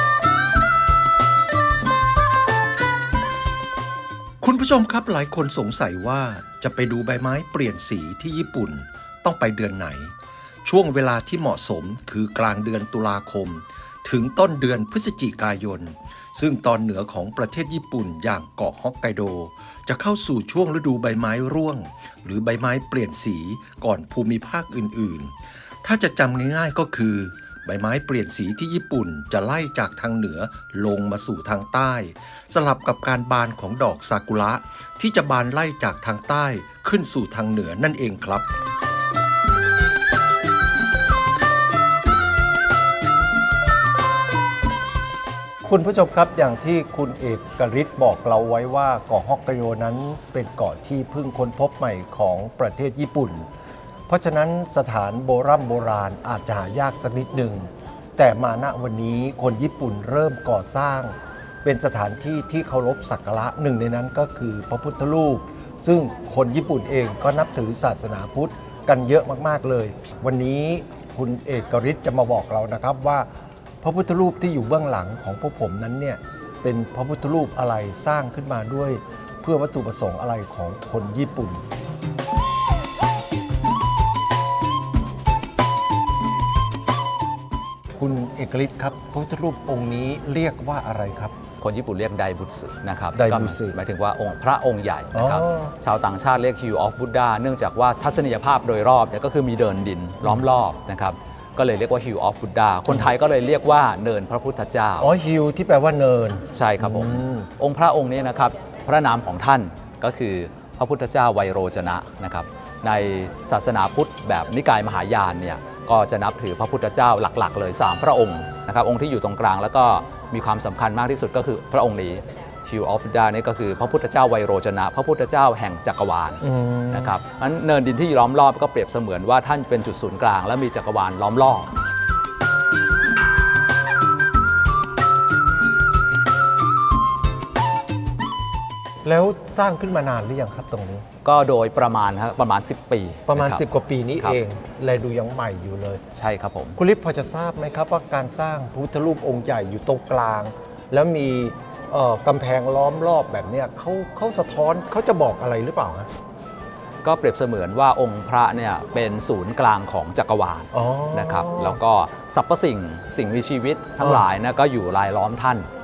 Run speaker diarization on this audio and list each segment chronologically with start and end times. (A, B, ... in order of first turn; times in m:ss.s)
0:04.4-0:38.5 A
0:45.6-0:53.5 B
0:54.1-1:13.3 B
1:13.8-1:21.6 B
1:28.0-1:31.4 B
1:31.6-1:45.1 C
1:33.2-1:33.8 B
1:35.2-1:35.7 B
1:45.0-1:47.5 B
1:46.5-2:11.7 C
2:06.4-2:07.2 B
2:19.0-2:21.0 B
2:21.2-2:23.6 C
2:23.3-2:26.0 B
2:26.1-2:26.8 C
2:26.8-2:36.1 B
2:37.0-2:45.7 C
2:40.7-2:41.8 B